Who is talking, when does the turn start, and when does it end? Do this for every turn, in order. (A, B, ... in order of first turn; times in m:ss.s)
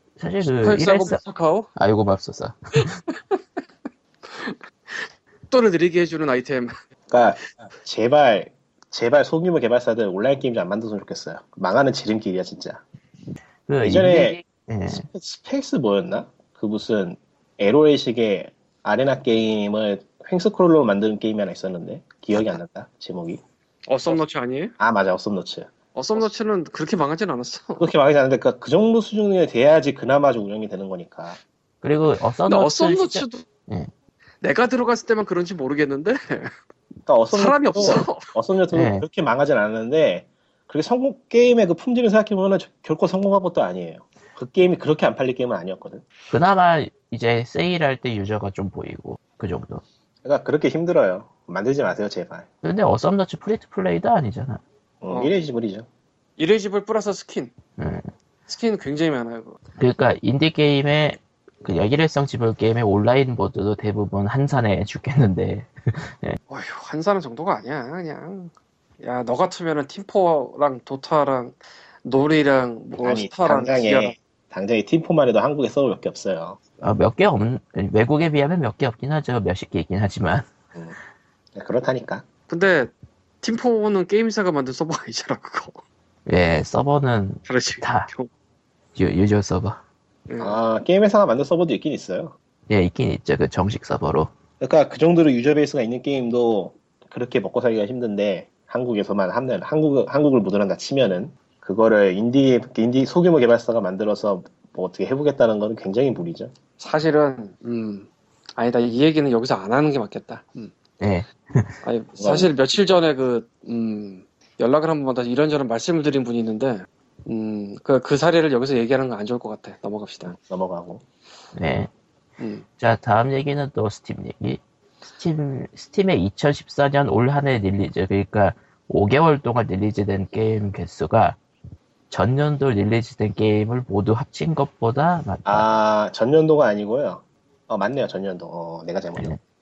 0:00.2-0:01.2 A
0:00.4-0:01.7 B
0:01.8-0:03.0 A
0:03.1-0:03.4 B
0:04.2-0:06.7 B
0:07.1-0:12.8 C
0:13.7-0:15.1 A
0:13.8-0:14.4 C
0:14.9-0:23.4 C
0:23.9-0:24.7 B
0:24.8-0:26.3 C
0:25.9-0:27.9 B
0:27.8-0:31.4 C
0:31.8-0:33.9 A
0:32.5-0:33.4 B
0:34.4-0:36.5 B
0:37.0-0:46.0 C
0:37.3-0:38.2 B
0:38.7-0:39.0 A
0:46.3-0:49.8 A
0:50.2-0:52.4 C
0:52.6-0:54.6 A
0:55.0-0:55.9 C
0:55.1-0:55.4 B
0:56.4-0:57.5 B
0:57.8-0:58.1 A
0:58.5-0:59.6 B
0:59.8-1:06.4 A
1:06.5-1:14.2 B
1:13.0-1:16.6 C
1:16.8-1:20.5 A
1:21.5-1:22.2 C
1:22.5-1:25.8 B
1:26.3-1:28.1 A
1:27.4-1:28.3 B
1:28.9-1:29.8 A
1:30.3-1:30.6 B
1:30.4-1:32.4 C
1:32.7-1:34.3 A
1:34.6-1:46.5 C
1:46.8-1:50.7 B
1:51.0-1:51.7 A
1:51.8-2:00.3 B
1:52.2-1:52.5 C
2:00.2-2:01.0 C
2:01.5-2:01.9 A
2:02.4-2:02.6 B
2:02.8-2:04.6 A
2:05.2-2:11.4 A
2:12.1-2:15.7 A
2:15.4-2:19.3 C